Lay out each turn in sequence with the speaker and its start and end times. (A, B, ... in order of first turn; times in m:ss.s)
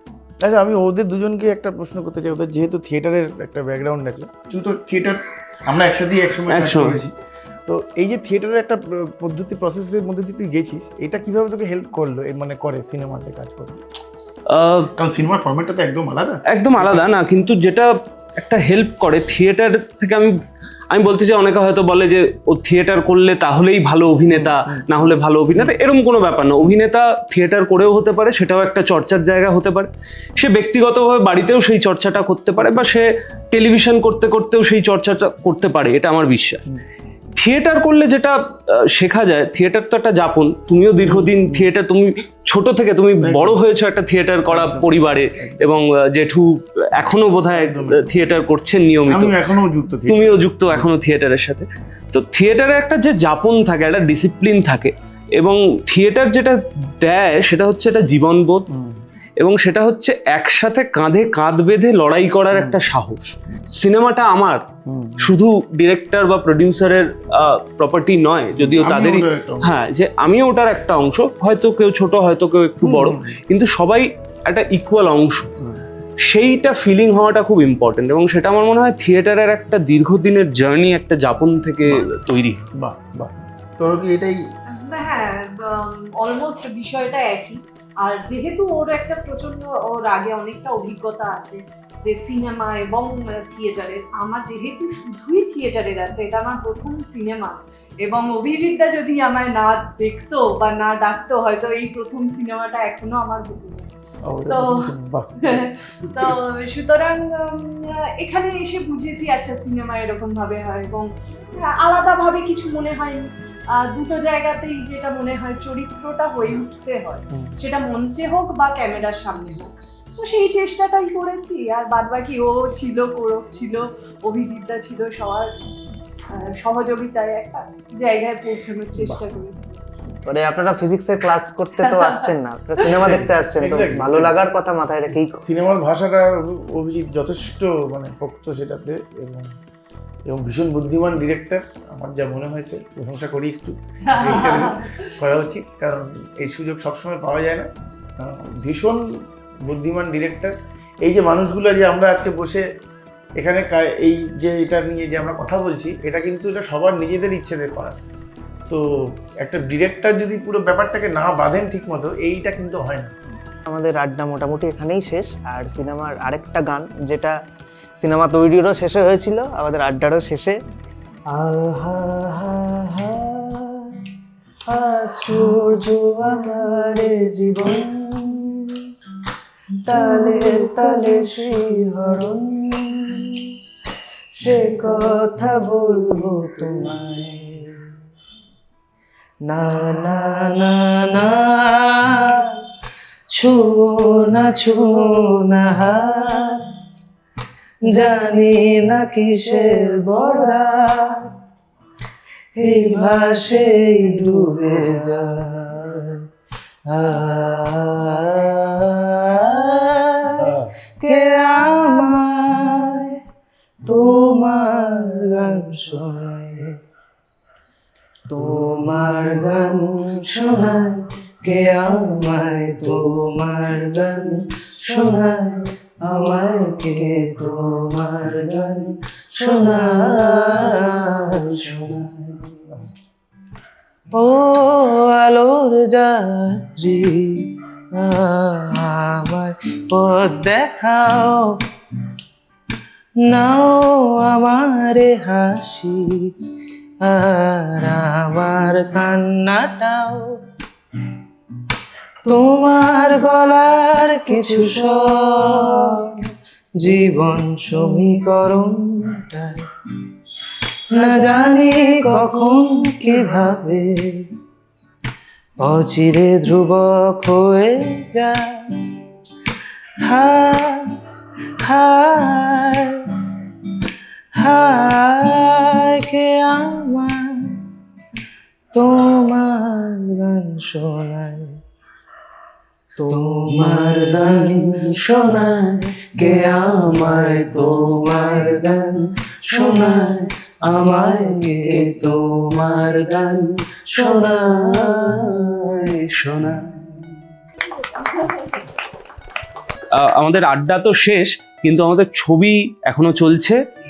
0:00.4-0:07.1 A
0:06.5-0:07.0 B
0:07.7-0:13.8 A
0:14.5-0:14.9 B
0:15.0-0:17.0 A
0:16.5-0:20.4 B
0:20.9-0:36.6 B
0:24.3-0:25.7 A
0:37.4-0:49.4 B
0:41.0-0:41.7 A
0:43.2-0:43.6 A
0:44.5-0:45.7 A
0:47.5-0:48.1 A
0:49.1-0:50.8 A
0:50.1-0:58.7 B
0:58.7-0:59.0 A
0:59.4-1:04.6 B
1:02.5-1:02.8 A
1:04.9-1:05.3 A
1:05.2-1:15.5 B
1:08.6-1:09.7 A
1:12.8-1:13.3 A
1:16.2-1:22.6 B
1:22.7-1:24.4 A
1:24.7-1:43.9 C
1:44.3-1:46.3 A
1:44.5-1:44.9 C
1:45.4-2:05.5 C
2:06.3-2:09.8 C
2:10.2-2:15.4 D
2:11.8-2:12.2 C
2:12.9-2:14.4 A
2:15.4-2:19.5 A
2:20.3-2:29.0 A
2:24.1-2:24.9 C
2:29.7-2:32.6 A
2:33.4-2:38.0 A
2:39.4-2:43.1 A
2:43.7-2:47.3 D
2:48.0-2:50.6 D
2:51.3-2:54.1 D
2:54.7-2:58.8 D
2:59.8-3:03.5 D
2:59.9-3:01.3 E
3:04.4-3:07.8 D
3:09.5-3:10.3 D
3:10.5-3:12.5 E
3:13.3-3:16.6 E
3:17.9-3:21.3 E
3:22.6-3:23.3 D
3:22.6-3:26.1 E
3:24.8-3:25.7 D
3:26.9-3:30.4 E
3:27.1-3:27.8 D
3:30.4-3:30.7 A
3:31.0-3:31.6 D
3:31.0-3:33.1 E
3:33.9-3:36.8 E
3:38.3-3:38.8 D
3:38.3-3:52.5 E
3:54.1-4:01.6 E
4:03.2-4:06.3 E
4:07.0-4:10.4 E
4:12.2-4:16.3 E
4:16.8-4:19.6 E
4:21.0-4:24.3 E
4:25.6-4:28.9 E
4:30.0-4:31.0 E
4:31.6-4:33.5 E
4:34.4-4:37.6 E
4:38.7-4:41.6 E
4:43.0-4:44.8 D
4:43.0-4:55.9 E
4:56.1-4:56.7 B
4:57.9-4:58.5 C
4:59.9-5:03.6 B